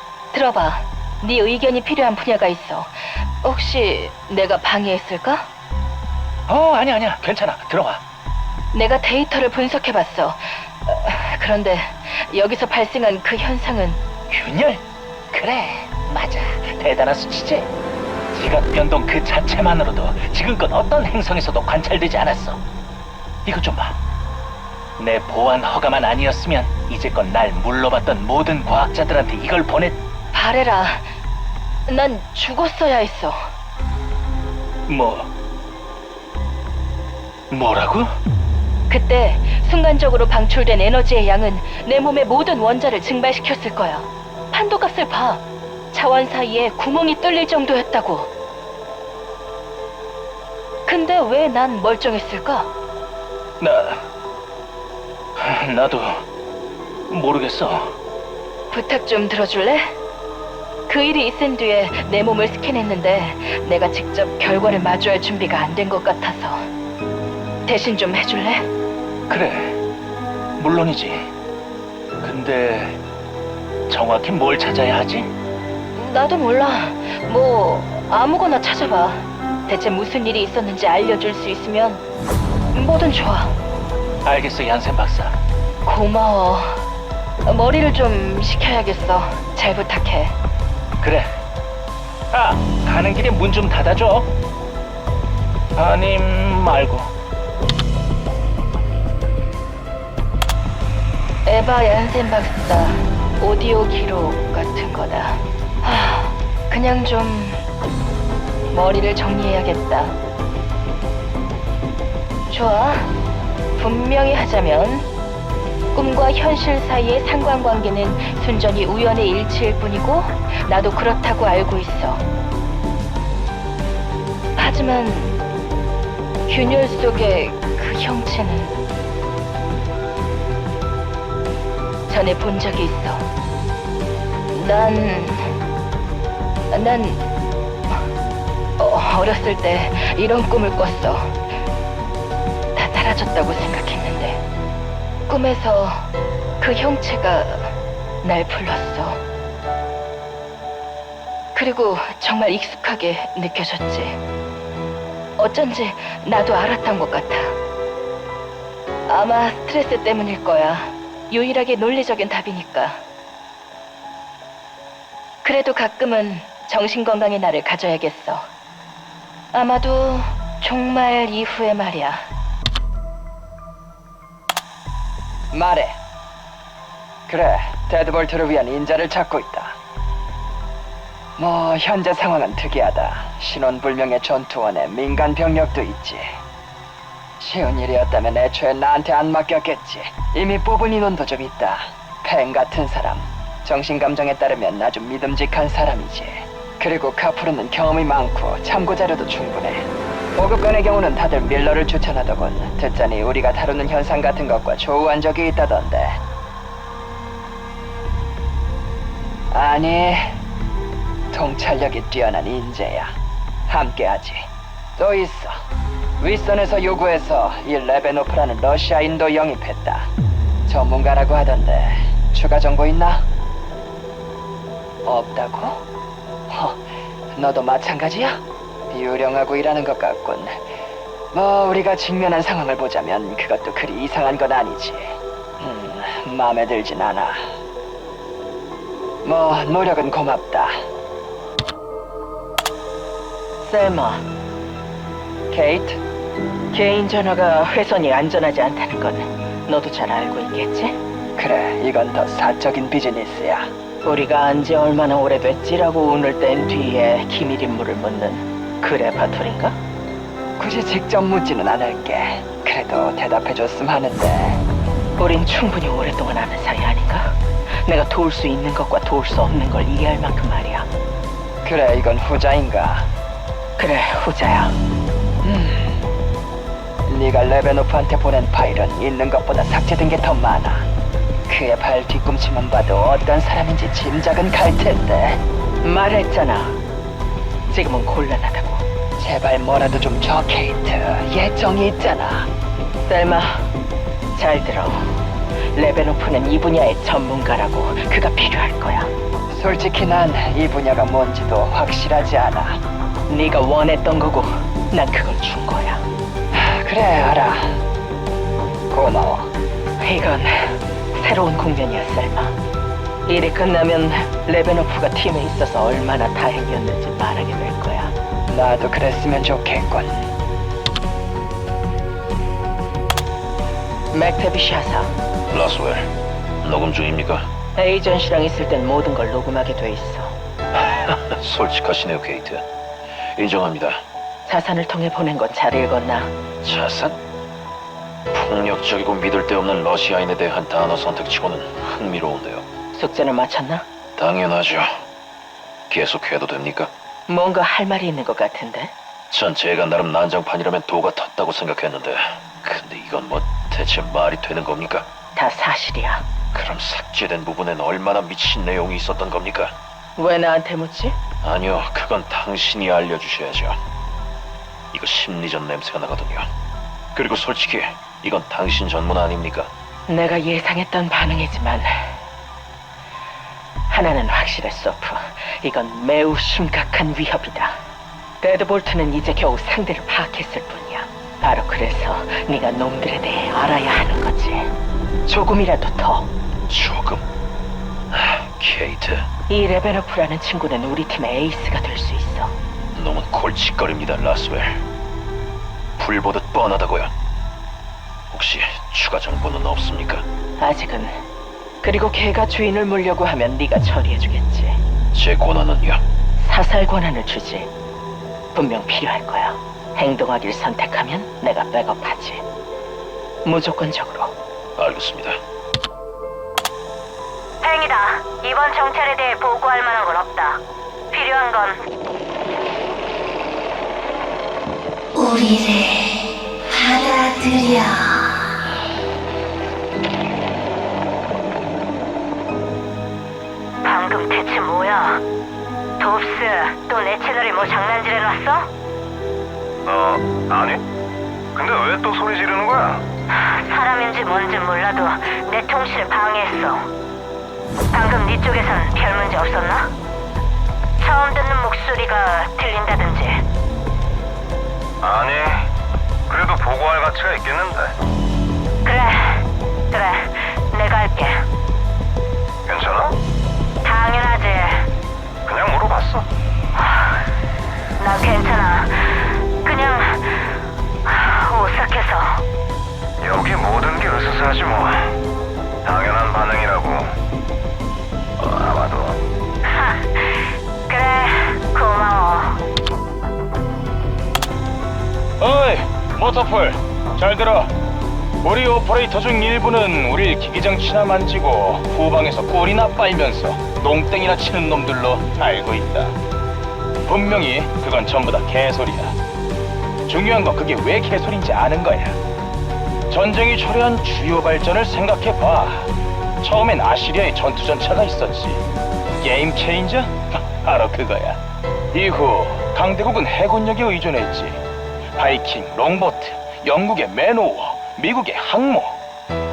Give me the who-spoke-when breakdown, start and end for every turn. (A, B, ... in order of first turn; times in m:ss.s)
0:00.3-0:05.5 A
0:06.5-0:08.0 B
0:08.7-0:14.0 A
0:14.3-0:17.7 B
0:18.3-0:22.6 B
0:23.4-0:24.0 B
0:25.0-0:30.0 B
0:30.3-0:31.1 A
0:31.9-0:33.4 A
0:34.9-0:35.3 B
0:37.5-0:38.1 B
0:38.9-0:48.3 A
0:50.9-0:52.7 A
0:53.6-0:54.1 B
0:55.4-0:56.2 B
0:57.1-0:58.0 B
0:58.7-0:59.9 A
1:00.9-1:06.7 A
1:07.7-1:08.7 A
1:09.3-1:09.8 B
1:10.6-1:11.3 B
1:12.2-1:13.0 B
1:13.9-1:15.3 B
1:16.0-1:22.0 A
1:22.7-1:23.6 A
1:24.2-1:25.4 B
1:25.8-1:26.9 A
1:27.4-1:30.4 A
1:31.0-1:31.3 B
1:32.3-1:34.3 B
1:36.2-1:36.6 B
1:41.4-1:47.6 A
1:48.7-1:50.2 A
1:52.5-1:53.1 A
1:53.8-1:55.1 A
1:55.9-2:02.2 A
2:04.6-2:05.4 A
2:06.5-2:08.8 A
2:12.1-2:13.3 A
2:14.5-2:15.5 A
2:16.7-2:17.3 A
2:18.8-2:21.4 A
2:22.8-2:24.4 A
2:25.3-2:26.1 A
2:26.6-2:29.2 A
2:31.5-2:34.2 A
2:35.4-2:37.6 A
2:39.1-2:43.0 A
2:45.4-2:48.5 A
2:49.5-2:52.3 A
2:55.5-2:56.0 C
2:57.3-2:59.8 C
3:01.4-3:06.4 C
3:07.4-3:26.2 C
3:29.5-3:30.3 C
3:31.3-3:33.2 C
3:33.7-3:35.6 C
3:36.2-3:40.1 C
3:40.7-3:43.3 C
3:45.0-3:45.8 C
3:46.5-3:46.8 C
3:47.4-3:50.6 C
3:51.3-3:57.4 C
3:59.2-4:00.8 C
4:03.6-4:04.2 D
4:05.5-4:06.0 C
4:06.7-4:11.0 D
4:11.4-4:13.7 C
4:14.0-4:19.8 D
4:20.6-4:24.6 C
4:25.2-4:30.9 D
4:31.6-4:33.1 C
4:33.8-4:34.8 D
4:35.4-4:36.0 C
4:37.1-4:40.9 C
4:41.5-4:45.4 C
4:45.8-4:46.8 D
4:47.7-4:48.8 D
4:49.2-4:52.5 C
4:53.1-4:53.7 D
4:54.4-4:55.1 D
4:55.8-4:59.1 D
4:59.5-5:02.8 C
5:03.3-5:06.0 D
5:06.5-5:07.8 C
5:08.9-5:09.5 C
5:10.0-5:12.5 D
5:13.3-5:18.1 D
5:18.5-5:20.3 C
5:24.1-5:25.1 D
5:25.5-5:26.1 E
5:26.6-5:27.5 E
5:27.8-5:30.3 D
5:30.8-5:32.7 E
5:33.3-5:34.0 E
5:34.5-5:36.3 D
5:36.6-5:37.2 E
5:38.3-5:42.6 E
5:42.9-5:43.8 D
5:44.2-5:44.9 E
5:45.9-5:46.9 E
5:47.3-5:48.9 D
5:49.3-5:55.1 E
5:55.4-5:56.2 D
5:56.5-5:59.8 E
6:00.2-6:01.2 D
6:01.4-6:03.8 E
6:04.9-6:06.4 E
6:07.1-6:09.7 E
6:10.1-6:12.1 D
6:13.9-6:17.8 D
6:18.4-6:24.7 D
6:25.3-6:26.3 D
6:26.7-6:27.2 E
6:28.1-6:29.3 E
6:29.5-6:32.5 D
6:33.0-6:34.8 E
6:36.0-6:37.1 E
6:38.3-6:40.3 E
6:40.6-6:41.2 D
6:41.8-6:44.8 D
6:45.1-6:46.0 E
6:46.4-6:47.7 D
6:48.5-6:52.4 D
6:53.4-6:54.3 D
6:54.8-6:55.4 E
6:57.6-7:01.8 F
7:05.5-7:06.0 D
7:07.1-7:08.1 D
7:13.8-7:15.2 F
7:16.0-7:18.7 F
7:19.8-7:20.8 G
7:21.5-7:23.0 G
7:23.3-7:26.9 F
7:27.9-7:29.9 F
7:31.0-7:33.4 F
7:35.0-7:35.7 G
7:36.3-7:38.0 G
7:38.8-7:41.5 F
7:42.6-7:43.2 G
7:43.8-7:44.9 F
7:45.4-7:46.3 G
7:46.8-7:47.3 F
7:48.0-7:50.6 F
7:51.1-7:52.4 F
7:53.2-7:55.2 G
7:55.8-7:57.2 G
7:58.4-7:59.2 G
7:59.7-8:02.6 F
8:05.4-8:07.7 H
8:08.4-8:16.2 H
8:17.1-8:19.2 H
8:20.1-8:22.2 H
8:23.1-8:25.9 H
8:26.4-8:28.6 H
8:29.2-8:31.4 H
8:31.9-8:34.6 H
8:35.2-8:39.0 H